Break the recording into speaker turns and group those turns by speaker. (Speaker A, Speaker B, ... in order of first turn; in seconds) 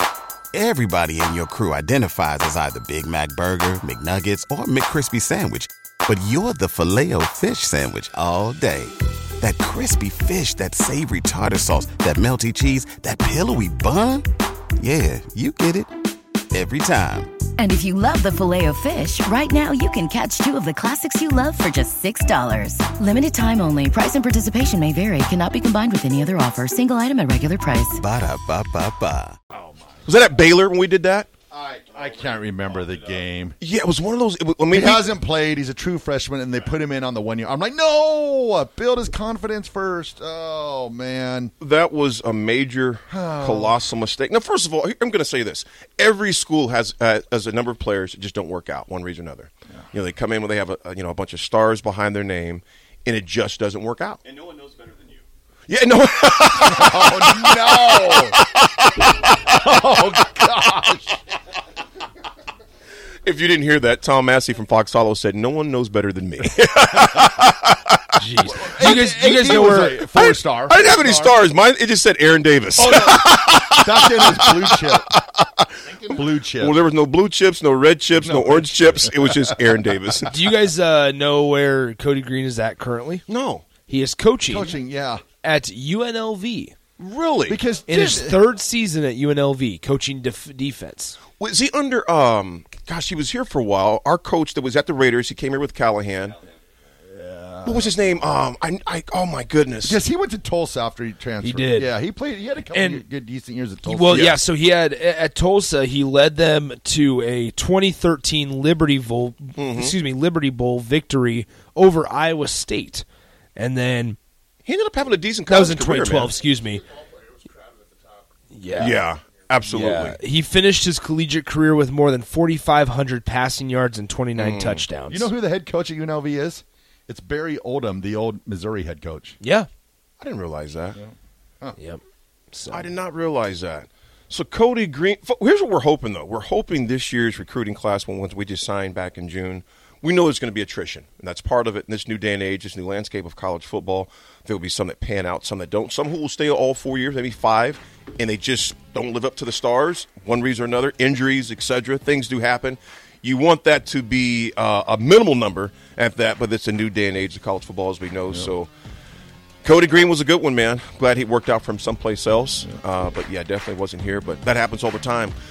Speaker A: 0.5-14.2, 14.8-15.9, 16.5-17.4, 28.0-29.4, 54.3-55.2
Speaker B: 17.6-28.0
Speaker C: 30.1-31.3, 33.6-35.1, 41.6-54.2, 55.7-58.8, 63.2-68.0, 70.1-80.3, 83.3-83.7, 87.0-87.6, 91.4-96.4, 97.7-100.0, 109.6-109.9, 114.7-116.4, 118.8-120.2, 124.4-124.8, 130.2-131.0, 132.7-158.7, 159.6-165.3
Speaker D: 31.5-33.6, 34.7-41.5, 43.1-43.8, 56.6-58.4, 59.5-61.2, 68.5-71.4, 72.8-75.1, 76.1-76.8, 78.2-79.6, 84.5-85.2, 87.5-88.4, 97.1-97.9, 99.8-104.4, 125.1-129.4, 130.9-131.8
Speaker E: 68.2-70.0, 72.8-73.1, 80.3-84.8, 85.4-86.8, 87.9-91.2, 101.4-101.9, 102.7-103.0, 103.8-113.0, 113.6-114.2, 115.5-116.8, 118.5-118.9, 119.6-125.3, 129.4-129.7, 131.8-132.9